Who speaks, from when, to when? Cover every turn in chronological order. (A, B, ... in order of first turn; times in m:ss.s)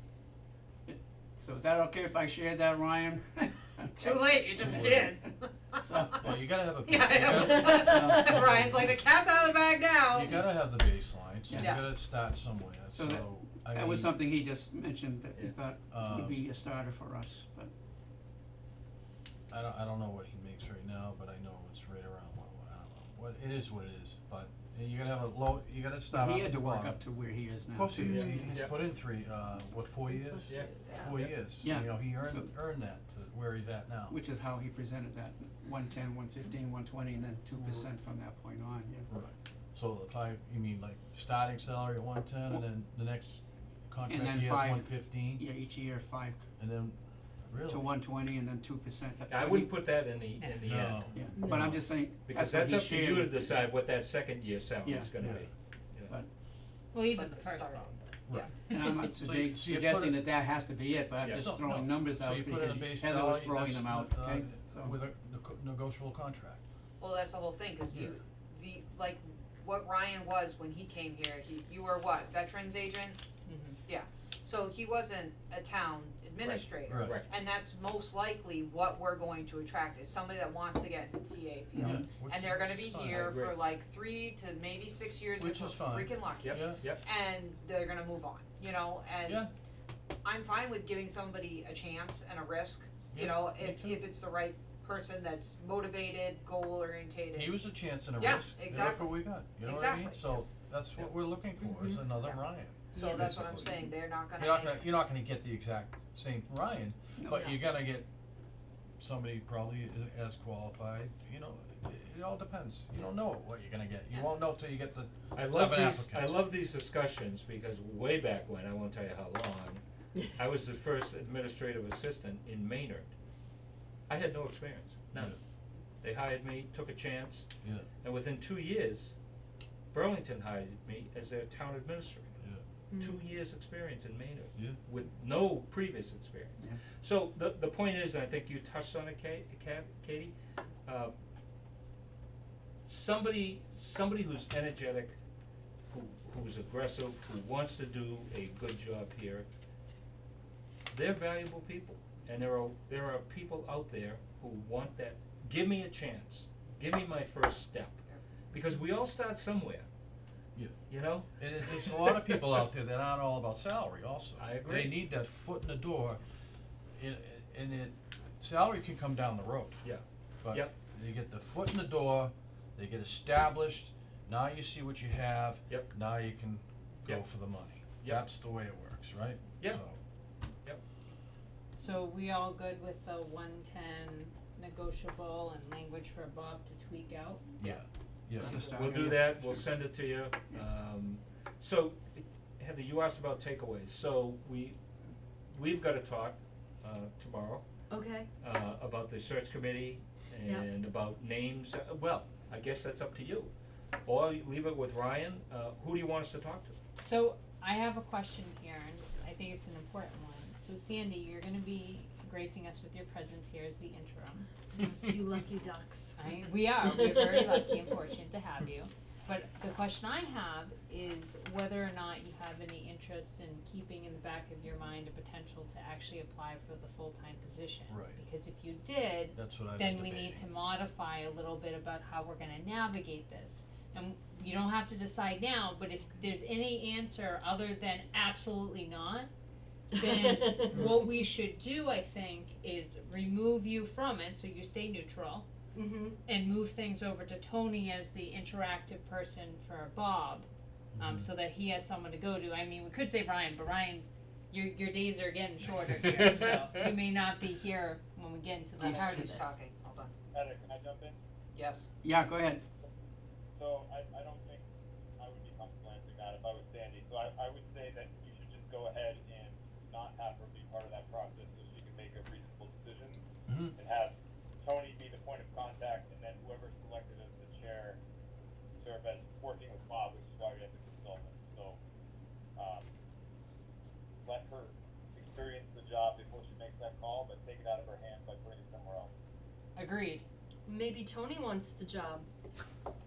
0:00.9-0:05.2 A
0:04.0-0:05.8 B
0:04.6-0:05.2 C
0:05.8-0:06.4 A
0:06.2-0:09.0 C
0:06.8-0:10.4 B
0:07.3-0:08.5 A
0:10.1-0:14.2 C
0:10.2-0:10.6 A
0:11.5-0:11.8 A
0:11.6-0:11.9 B
0:12.9-0:17.7 A
0:15.9-0:16.4 C
0:19.5-0:27.0 C
0:26.1-0:28.6 A
0:27.7-0:34.2 C
0:28.0-0:28.9 D
0:30.4-0:31.4 D
0:30.8-0:31.1 B
0:31.6-0:32.5 A
0:34.1-0:39.1 A
0:39.1-0:45.5 C
0:44.1-0:46.4 A
0:46.6-0:47.0 C
0:47.5-0:47.8 C
0:47.7-0:49.8 A
0:49.3-0:51.1 D
0:50.6-0:51.9 C
0:51.1-0:53.5 A
0:51.7-0:56.1 D
0:54.8-0:55.1 A
0:55.2-0:55.4 C
0:56.9-0:58.1 E
0:57.1-0:58.5 B
0:58.3-1:00.2 C
0:58.7-1:05.0 A
1:01.2-1:01.6 D
1:01.3-1:06.6 C
1:07.0-1:13.2 B
1:07.9-1:08.2 C
1:13.5-1:13.8 E
1:13.8-1:29.4 B
1:16.4-1:17.3 D
1:16.9-1:17.2 C
1:21.7-1:23.3 C
1:23.1-1:23.6 D
1:25.4-1:26.8 C
1:26.4-1:27.0 D
1:29.2-1:29.5 C
1:30.2-1:40.4 B
1:33.1-1:34.0 C
1:37.3-1:48.1 C
1:41.6-1:42.0 F
1:42.1-1:42.4 B
1:42.9-1:44.9 B
1:47.2-1:47.6 A
1:49.0-1:56.4 C
1:55.3-2:03.1 D
2:04.1-2:05.4 D
2:06.0-2:07.5 D
2:08.0-2:09.1 D
2:09.9-2:12.4 D
2:12.9-2:13.2 F
2:12.9-2:20.3 D
2:20.8-2:21.1 D
2:22.8-2:25.1 D
2:25.9-2:29.4 D
2:30.9-2:39.8 D
2:40.9-2:42.3 D
2:41.4-2:46.2 C
2:44.4-2:44.9 D
2:47.0-2:49.9 C
2:49.8-2:50.7 D
2:50.4-3:00.0 C
2:57.0-2:57.4 D
3:01.8-3:07.6 E
3:07.6-3:08.6 C
3:08.4-3:09.7 A
3:08.4-3:14.8 D
3:15.5-3:17.6 D
3:17.9-3:18.3 F
3:18.4-3:23.5 D
3:24.0-3:26.7 D
3:27.0-3:34.5 E
3:34.8-3:36.2 F
3:36.2-3:59.3 E
3:37.1-3:37.7 F
3:47.9-3:48.2 C
3:49.3-3:50.4 C
3:59.9-4:05.4 E
4:00.2-4:00.8 F
4:05.7-4:06.2 F
4:06.2-4:10.5 E
4:10.9-4:11.3 C
4:11.0-4:19.6 E
4:15.9-4:16.7 D
4:18.8-4:19.4 A
4:18.8-4:20.1 B
4:20.3-4:21.2 G
4:21.5-4:21.9 B
4:22.0-4:22.6 A
4:23.5-4:24.6 G
4:25.2-4:33.2 G
4:33.5-4:33.7 C
4:33.8-4:38.0 G
4:38.8-4:41.8 G
4:42.6-4:42.9 G
4:44.2-4:49.1 G
4:49.8-4:50.2 E
4:50.6-4:52.3 F